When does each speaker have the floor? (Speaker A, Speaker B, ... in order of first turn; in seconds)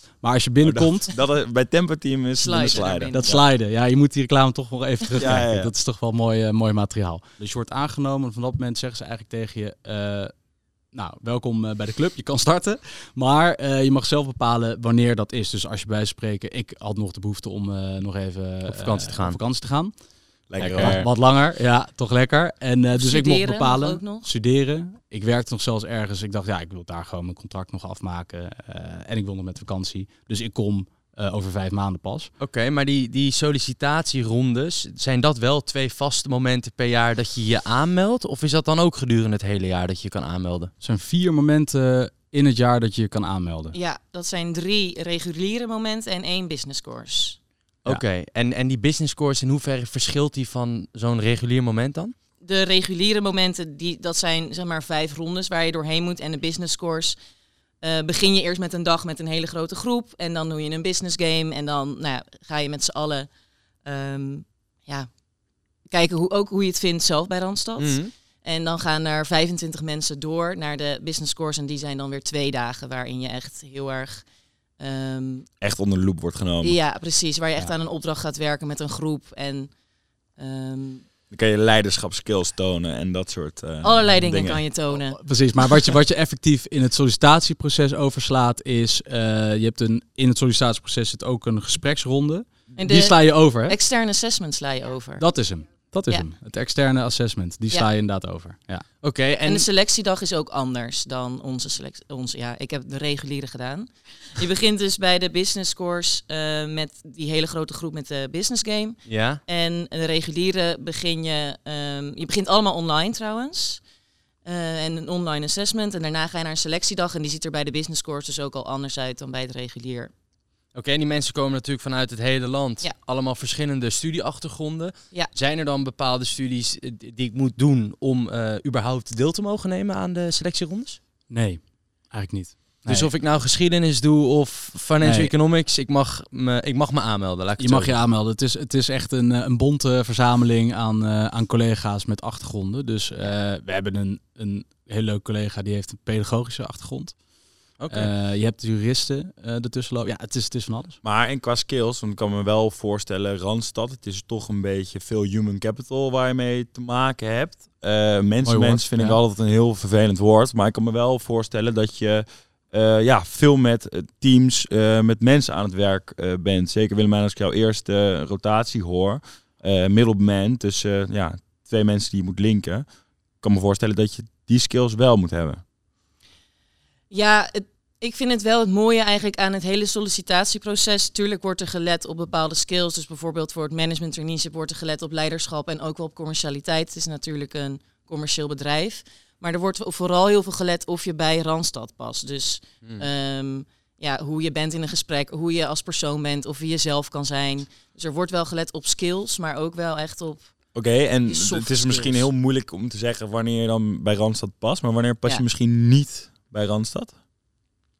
Speaker A: 0.2-1.1, 3.1-10.3, 10.9-19.9, 20.6-32.3, 40.8-43.8, 85.0-93.8, 95.2-98.8, 131.3-133.1, 135.0-135.3, 137.6-147.2, 147.9-151.0, 158.4-159.2
Speaker B: 0.6-3.4, 5.2-5.7, 20.5-21.1, 75.6-76.8, 81.3-84.6, 151.0-172.8, 173.4-175.6, 200.7-207.1
Speaker C: 2.4-3.3, 23.0-24.3, 43.7-47.4, 52.4-57.2, 57.8-63.3, 63.8-65.1, 65.9-74.2, 74.8-75.5, 76.6-79.7, 80.4-81.0, 83.8-85.2, 92.8-95.2, 99.4-113.8, 114.4-120.1, 177.1-200.5, 201.2-202.3
Speaker D: 18.7-19.4, 20.6-21.0, 32.4-40.7, 47.8-52.1, 67.8-68.1, 99.0-99.7, 109.1-109.4, 120.7-131.0, 132.9-137.9, 147.8-148.1